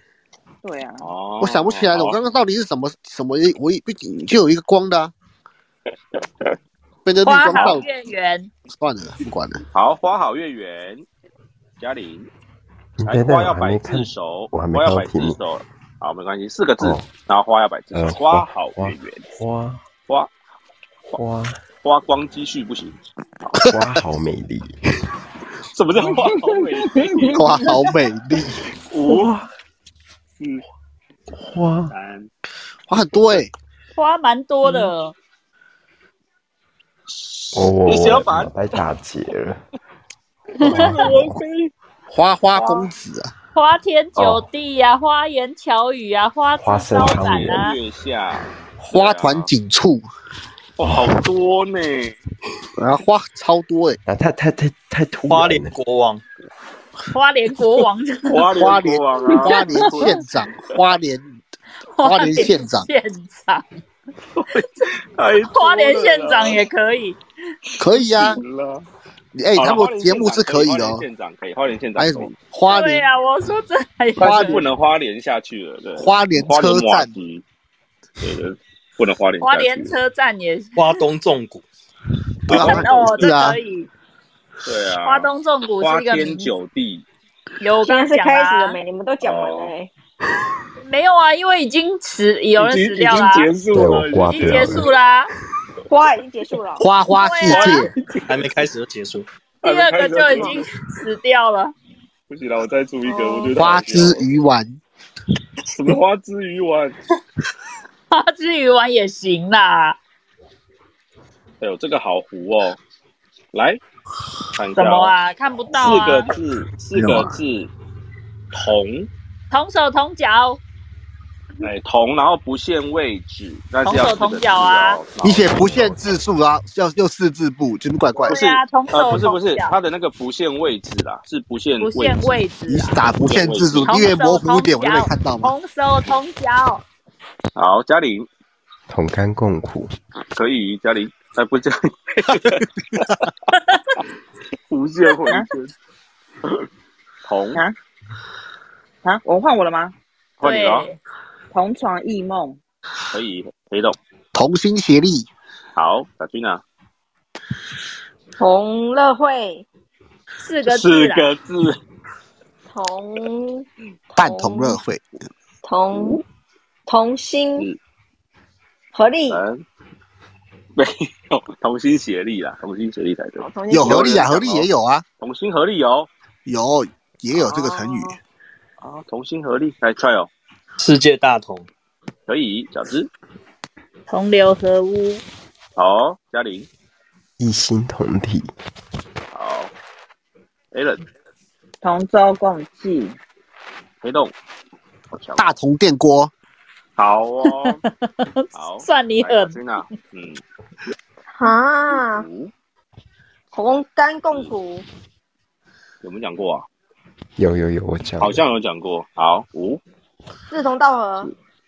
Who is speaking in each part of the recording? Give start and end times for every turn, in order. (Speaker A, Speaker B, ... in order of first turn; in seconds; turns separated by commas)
Speaker A: 0.6-1.1, Speaker B: 1.0-2.2, Speaker C: 1.4-5.1, Speaker C: 7.0-7.8, Speaker D: 7.2-8.5, Speaker B: 7.5-7.8, Speaker C: 8.7-9.6, Speaker B: 9.7-11.1, Speaker B: 11.8-12.3, Speaker E: 13.0-15.4, Speaker B: 13.0-19.3, Speaker E: 16.8-17.1, Speaker E: 17.9-19.8, Speaker E: 21.1-21.6, Speaker B: 21.8-23.6, Speaker C: 23.6-24.0, Speaker E: 23.6-24.8, Speaker B: 25.7-27.6, Speaker C: 27.3-28.6, Speaker B: 28.9-29.3, Speaker E: 29.1-29.5, Speaker E: 31.4-31.9, Speaker B: 31.9-32.3, Speaker C: 32.9-33.5, Speaker D: 34.0-35.1, Speaker B: 37.1-38.9, Speaker E: 37.5-39.6, Speaker D: 40.6-41.0, Speaker B: 40.6-41.7, Speaker E: 40.6-41.3, Speaker C: 42.1-43.3, Speaker B: 42.5-42.9, Speaker D: 43.5-47.8, Speaker E: 44.1-44.4, Speaker E: 46.6-47.6, Speaker B: 47.3-49.5, Speaker C: 48.8-50.0, Speaker B: 50.8-52.2, Speaker E: 50.9-51.1, Speaker C: 52.8-54.0, Speaker E: 54.0-55.8, Speaker F: 55.3-56.2, Speaker D: 57.1-58.5, Speaker B: 58.3-60.2, Speaker C: 58.6-61.3, Speaker D: 62.0-63.6, Speaker C: 62.0-62.9, Speaker B: 64.3-66.6, Speaker D: 65.4-67.2, Speaker C: 67.8-68.4, Speaker B: 67.9-68.8, Speaker C: 69.3-71.0, Speaker B: 69.5-72.3, Speaker C: 72.0-73.0, Speaker D: 72.7-74.6, Speaker B: 74.2-77.4, Speaker C: 74.2-74.6, Speaker C: 76.0-77.1, Speaker B: 78.2-80.0, Speaker D: 79.4-80.9, Speaker F: 80.8-81.6, Speaker B: 82.5-83.3, Speaker C: 82.5-83.6, Speaker D: 82.5-83.9, Speaker B: 84.6-87.0, Speaker D: 85.0-86.5, Speaker D: 87.6-88.8, Speaker G: 87.8-89.9, Speaker B: 89.2-89.7, Speaker D: 90.8-93.5, Speaker B: 92.6-94.9, Speaker E: 93.7-94.9, Speaker D: 94.2-95.3, Speaker G: 95.9-96.9, Speaker C: 96.8-97.9, Speaker D: 97.1-97.9, Speaker B: 97.5-98.6, Speaker F: 98.3-99.3, Speaker B: 99.6-100.6, Speaker D: 99.6-101.7, Speaker G: 100.2-100.5, Speaker B: 102.3-104.3, Speaker G: 103.0-103.6, Speaker C: 103.5-104.8, Speaker B: 105.7-107.0, Speaker D: 108.1-110.0, Speaker B: 111.6-112.8, Speaker B: 113.5-113.8, Speaker B: 114.5-115.1, Speaker D: 114.8-116.3, Speaker B: 115.7-117.7, Speaker C: 116.9-117.3, Speaker B: 118.5-119.1, Speaker D: 119.5-120.6, Speaker B: 121.6-126.2, Speaker D: 123.8-125.0, Speaker C: 125.2-128.4, Speaker B: 128.2-132.4, Speaker D: 128.2-129.7, Speaker D: 131.8-133.0, Speaker C: 132.7-135.5, Speaker B: 133.2-134.1, Speaker D: 133.8-136.8, Speaker B: 137.6-138.3, Speaker E: 138.9-139.9, Speaker B: 140.3-143.1, Speaker B: 144.7-145.7, Speaker B: 147.2-147.6, Speaker A: 149.0-149.9, Speaker B: 150.4-150.9, Speaker D: 150.4-151.0, Speaker A: 151.5-152.6, Speaker B: 153.1-154.0, Speaker C: 154.3-155.3, Speaker B: 155.8-156.6, Speaker G: 158.4-159.6, Speaker D: 160.4-161.3, Speaker B: 160.6-161.8, Speaker G: 162.7-164.8, Speaker C: 164.2-165.0, Speaker G: 165.6-166.2, Speaker G: 166.9-167.7, Speaker G: 168.9-169.4, Speaker B: 169.3-169.6, Speaker B: 170.8-174.7, Speaker G: 173.4-174.3, Speaker C: 173.7-175.0, Speaker B: 175.2-176.1, Speaker C: 176.4-178.2, Speaker G: 177.3-178.1, Speaker B: 178.8-180.3, Speaker F: 180.8-181.7, Speaker B: 182.3-183.1, Speaker D: 184.1-185.2, Speaker B: 185.8-186.7, Speaker E: 187.4-188.5, Speaker B: 189.3-189.7, Speaker B: 190.7-191.0, Speaker A: 191.8-193.2, Speaker B: 194.0-194.3, Speaker B: 195.1-195.5, Speaker C: 195.4-196.3, Speaker B: 197.0-197.8, Speaker D: 197.6-199.6, Speaker B: 198.5-200.4, Speaker G: 201.4-202.2, Speaker B: 202.0-202.5, Speaker G: 203.5-204.8, Speaker B: 206.0-206.7, Speaker E: 207.4-208.4, Speaker B: 208.2-209.8, Speaker G: 210.5-211.3